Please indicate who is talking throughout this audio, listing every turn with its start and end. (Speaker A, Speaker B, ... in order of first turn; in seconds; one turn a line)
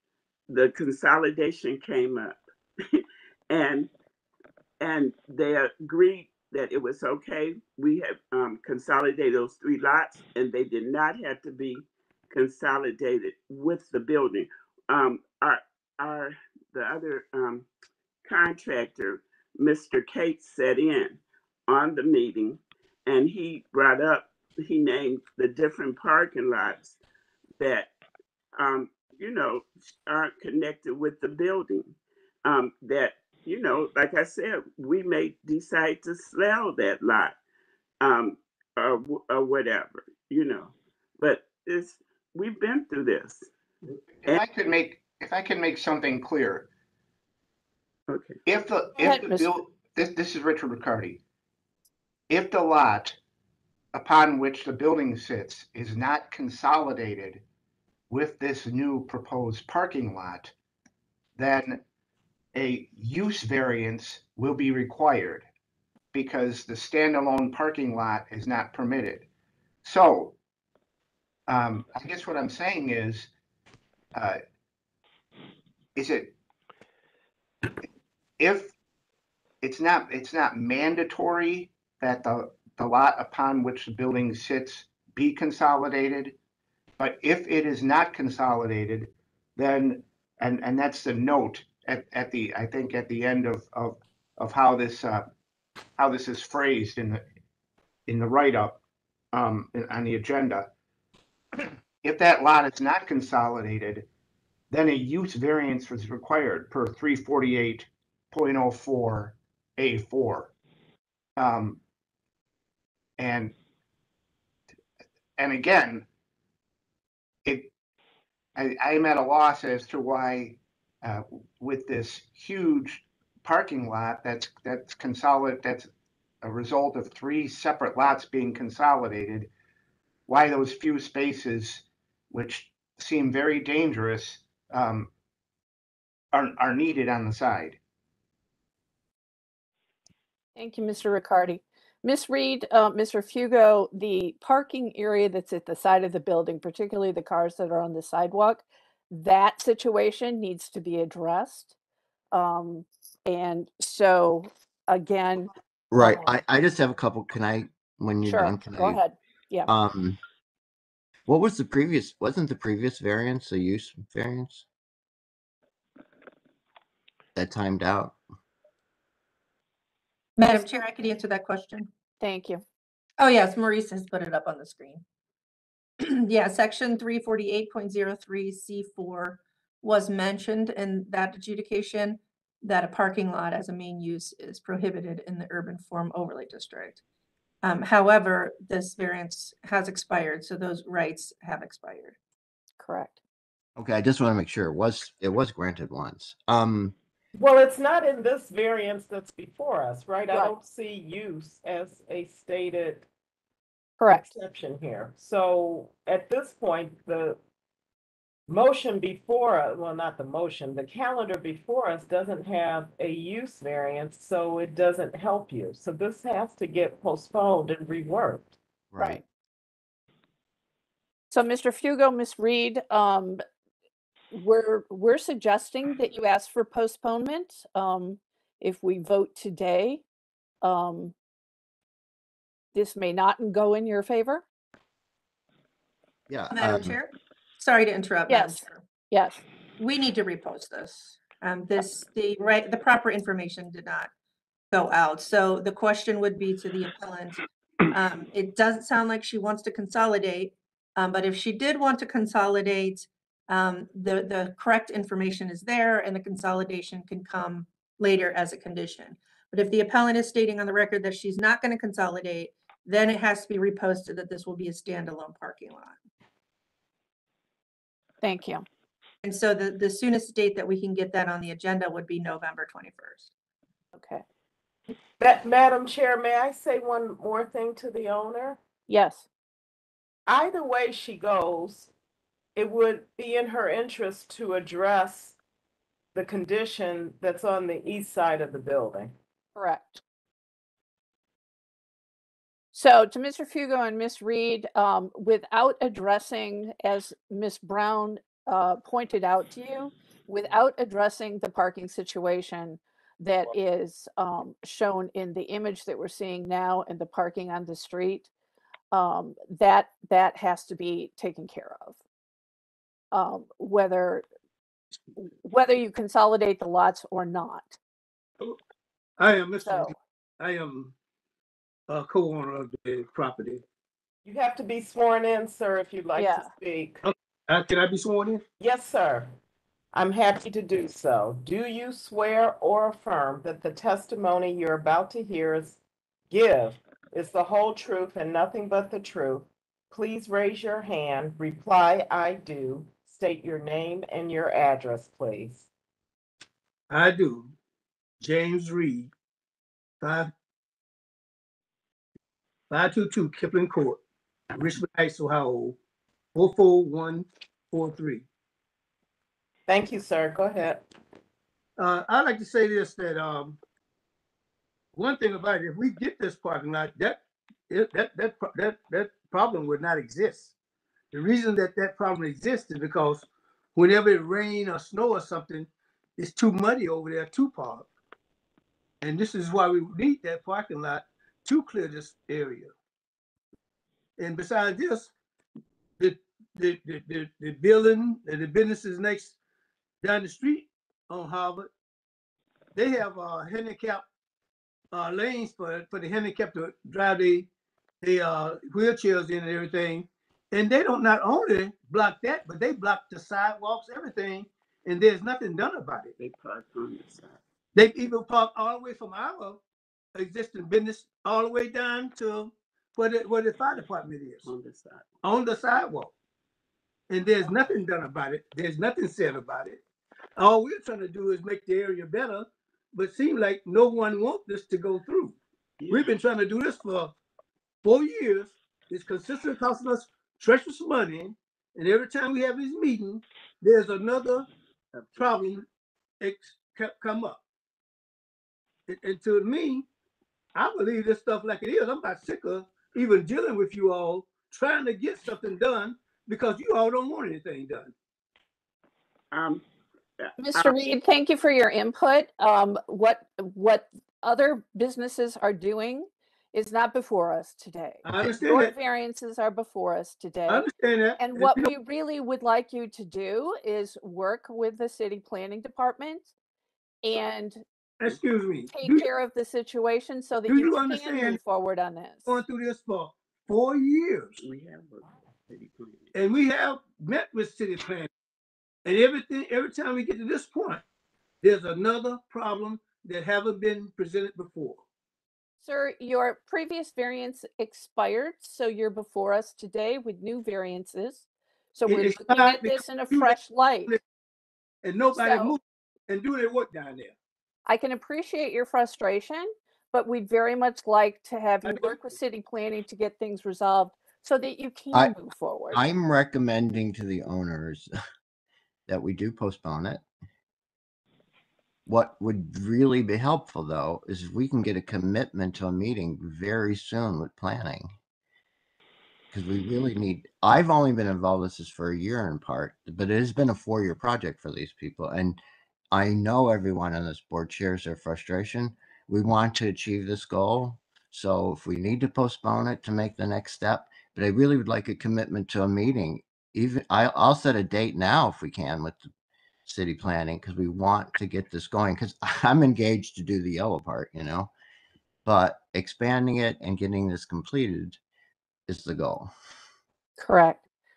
Speaker A: 0.5-3.9
Speaker A: 4.8-17.7
Speaker A: 18.2-27.0
Speaker A: 27.6-27.9
Speaker A: 28.6-31.9
Speaker A: 32.5-37.4
Speaker A: 38.0-43.5
Speaker B: 44.2-46.7
Speaker A: 48.1-48.4
Speaker B: 48.5-51.2
Speaker C: 49.0-49.6
Speaker B: 52.3-53.2
Speaker B: 53.9-57.4
Speaker B: 58.1-60.5
Speaker B: 61.4-61.8
Speaker B: 62.5-65.5
Speaker B: 66.1-69.3
Speaker B: 69.8-70.4
Speaker B: 71.5-73.3
Speaker B: 74.1-74.4
Speaker B: 76.0-76.3
Speaker B: 78.4-78.7
Speaker B: 79.6-86.4
Speaker B: 87.0-95.3
Speaker B: 96.0-97.2
Speaker B: 98.1-98.8
Speaker B: 99.3-100.7
Speaker B: 102.0-104.1
Speaker B: 104.7-110.5
Speaker B: 111.4-111.8
Speaker B: 113.2-113.5
Speaker B: 115.4-116.1
Speaker B: 117.5-117.7
Speaker B: 118.6-125.9
Speaker B: 126.4-129.5
Speaker B: 130.3-135.1
Speaker B: 136.3-137.8
Speaker C: 140.6-151.8
Speaker C: 152.3-156.4
Speaker D: 155.9-159.0
Speaker C: 158.2-159.7
Speaker D: 159.7-160.2
Speaker D: 161.3-164.7
Speaker D: 167.3-168.2
Speaker E: 170.4-171.9
Speaker C: 172.2-172.6
Speaker E: 173.2-175.0
Speaker E: 176.0-187.0
Speaker E: 187.6-192.2
Speaker C: 192.8-193.2
Speaker D: 193.8-196.9
Speaker F: 197.3-203.1
Speaker C: 200.3-200.6
Speaker C: 204.0-204.3
Speaker F: 204.1-207.4
Speaker F: 208.5-218.6
Speaker D: 218.9-219.2
Speaker C: 221.3-223.4
Speaker C: 224.3-230.0
Speaker C: 230.6-231.1
Speaker C: 232.7-234.4
Speaker D: 236.3-237.0
Speaker E: 236.5-238.8
Speaker C: 238.3-239.4
Speaker E: 239.8-244.1
Speaker E: 244.7-266.0
Speaker C: 268.2-268.6
Speaker E: 269.2-273.3
Speaker C: 273.9-274.2
Speaker F: 275.2-278.6
Speaker C: 278.9-279.3
Speaker F: 280.3-281.9
Speaker F: 282.6-285.4
Speaker F: 286.1-289.1
Speaker C: 289.6-290.0
Speaker C: 292.7-308.3
Speaker C: 308.9-312.0
Speaker C: 313.1-314.2
Speaker C: 315.2-317.8
Speaker G: 319.2-320.9
Speaker C: 319.6-319.9
Speaker G: 321.9-323.6
Speaker F: 324.2-327.0
Speaker C: 326.1-326.5
Speaker G: 327.0-328.4
Speaker F: 328.6-329.3
Speaker F: 329.9-335.8
Speaker F: 336.3-345.7
Speaker G: 346.9-347.5
Speaker G: 348.2-349.1
Speaker G: 350.0-350.3
Speaker G: 352.7-354.0
Speaker G: 354.6-355.8
Speaker G: 356.3-358.2
Speaker F: 359.7-360.9
Speaker G: 361.8-363.6
Speaker G: 365.0-370.5
Speaker G: 371.1-377.9
Speaker G: 379.0-382.7
Speaker G: 384.2-385.1
Speaker G: 386.0-389.4
Speaker G: 390.0-391.7
Speaker G: 392.8-394.1
Speaker G: 394.9-397.5
Speaker G: 398.0-406.1
Speaker A: 406.2-407.4
Speaker G: 407.8-409.6
Speaker G: 410.2-414.5
Speaker A: 414.4-415.1
Speaker G: 415.2-416.1
Speaker G: 417.1-419.8
Speaker G: 420.4-425.4
Speaker A: 425.8-426.1
Speaker G: 425.9-427.1
Speaker G: 427.8-434.5
Speaker A: 435.0-435.3
Speaker G: 435.1-435.7
Speaker G: 436.2-437.4
Speaker G: 438.9-439.9
Speaker G: 440.6-447.9
Speaker A: 449.3-449.6
Speaker A: 450.2-450.8
Speaker C: 450.4-460.7
Speaker G: 458.0-458.7
Speaker G: 460.5-461.7
Speaker C: 461.2-466.3
Speaker C: 467.0-467.6
Speaker G: 468.0-469.1
Speaker C: 468.7-472.3
Speaker G: 470.5-471.4
Speaker G: 472.3-474.4
Speaker A: 474.4-476.1
Speaker G: 476.1-478.1
Speaker G: 478.9-480.8
Speaker G: 481.4-484.8
Speaker C: 485.6-494.0
Speaker G: 491.9-494.0
Speaker G: 494.8-497.1
Speaker C: 495.1-495.6
Speaker C: 497.7-505.8
Speaker G: 501.7-502.0
Speaker D: 505.7-507.9
Speaker D: 508.9-510.0
Speaker D: 511.9-517.9
Speaker D: 519.3-525.4
Speaker D: 525.9-539.1
Speaker D: 539.7-544.5
Speaker D: 545.2-548.0
Speaker D: 548.7-549.3
Speaker C: 550.2-550.6